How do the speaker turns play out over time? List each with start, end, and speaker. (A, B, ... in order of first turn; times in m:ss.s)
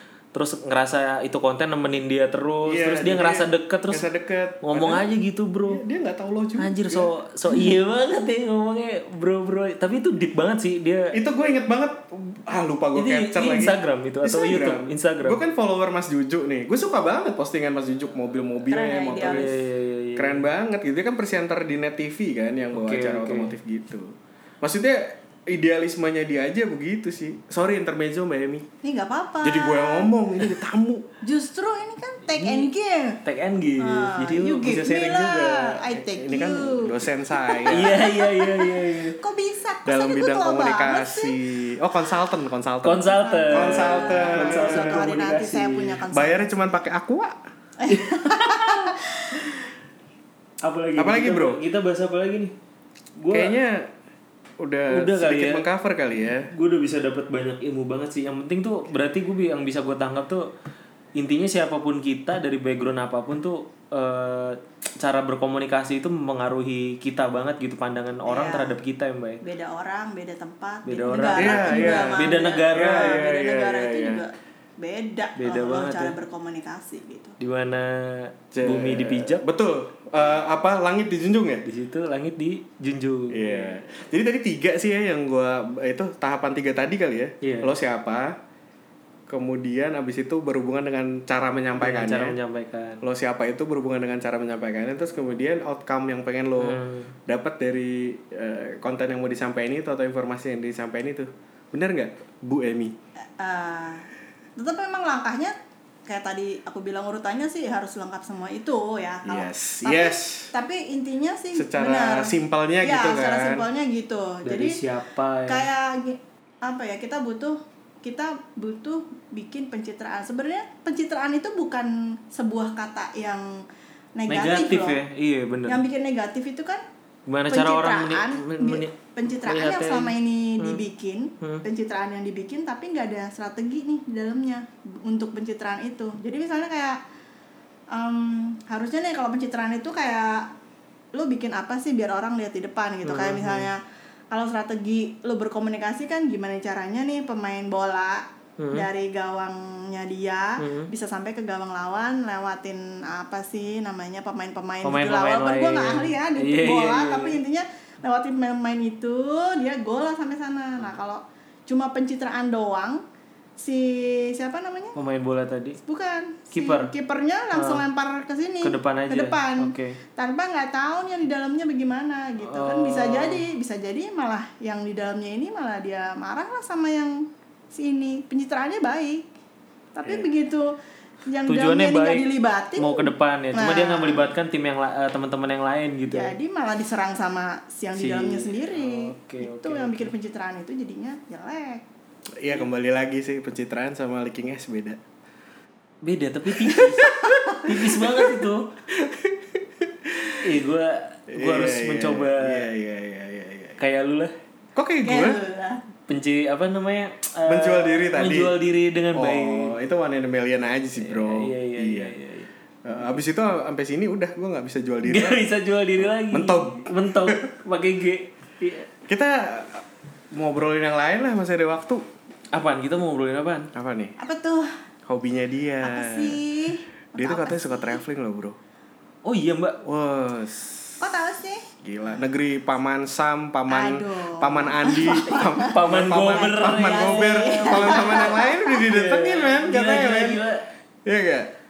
0:00.3-0:04.0 A
0:02.6-0:05.1 B
0:04.6-0:05.8 A
0:05.6-0:07.1 B
0:06.6-0:11.1 A
0:11.1-0:19.6 B
0:13.0-0:15.4 A
0:18.7-0:19.5 C
0:19.2-0:20.4 A
0:20.2-0:28.7 B
0:22.7-0:23.5 A
0:28.8-0:30.1 C
0:29.4-0:31.0 B
0:31.2-0:33.2 C
0:32.3-0:32.7 A
0:33.2-0:35.8 A
0:33.8-0:41.4 C
0:36.1-0:38.0 B
0:37.7-0:39.2 A
0:39.8-0:45.0 B
0:42.8-0:46.0 A
0:43.1-0:46.6 C
0:46.1-0:47.4 B
0:47.8-0:49.5 C
0:47.9-0:49.0 A
0:50.6-0:52.5 A
0:51.0-0:51.6 B
0:53.2-0:53.5 A
0:53.3-0:53.9 B
0:54.6-0:56.5 B
0:54.9-0:55.6 A
0:56.5-1:00.5 A
1:01.2-1:09.4 A
1:08.2-1:08.8 C
1:09.4-1:17.3 C
1:10.8-1:13.2 A
1:11.4-1:14.2 B
1:15.4-1:16.1 A
1:17.4-1:19.4 A
1:18.5-1:21.6 B
1:21.6-1:23.8 A
1:23.3-1:28.4 B
1:27.4-1:27.7 A
1:29.3-1:32.4 B
1:31.8-1:33.0 A
1:33.0-1:42.9 B
1:36.6-1:37.1 A
1:43.4-1:45.5 C
1:46.1-1:54.8 C
1:49.2-1:50.5 B
1:51.5-1:53.6 B
1:54.4-1:55.7 A
1:55.5-2:03.6 C
2:04.2-2:05.0 C
2:04.3-2:05.8 A
2:05.6-2:06.8 C
2:07.3-2:10.8 A
2:07.5-2:17.0 C
2:17.9-2:20.5 C
2:21.1-2:23.8 C
2:23.0-2:23.7 A
2:24.3-2:43.0 C
2:28.6-2:28.8 A
2:30.6-2:30.9 A
2:34.8-2:37.4 A
2:43.6-2:45.0 C
2:45.0-2:45.8 A
2:45.8-2:59.3 C
2:46.5-2:46.9 A
2:47.5-2:47.8 A
2:48.6-2:50.0 A
2:52.4-2:53.4 A
2:59.9-3:04.3 C
3:01.5-3:06.3 A
3:06.1-3:11.8 C
3:08.0-3:10.1 A
3:12.4-3:15.0 B
3:16.0-3:18.7 A
3:16.6-3:20.6 B
3:16.8-3:17.6 C
3:20.4-3:22.7 A
3:21.3-3:23.8 B
3:23.8-3:24.3 A
3:24.8-3:25.4 B
3:25.0-3:25.8 C
3:26.1-3:29.7 A
3:27.4-3:28.5 B
3:29.1-3:32.1 B
3:31.0-3:32.5 A
3:32.8-3:35.4 B
3:35.0-3:38.9 A
3:36.0-3:37.4 B
3:39.1-3:42.0 B
3:42.5-3:43.7 A
3:43.7-3:44.2 B
3:44.2-3:44.7 C
3:45.1-3:46.4 B
3:45.8-3:48.0 C
3:47.2-3:48.6 B
3:49.2-3:49.8 A
3:49.8-3:51.0 B
3:51.0-3:51.7 C
3:51.8-4:00.4 B
3:53.7-3:58.8 C
3:55.3-4:00.6 A
4:01.0-4:01.5 B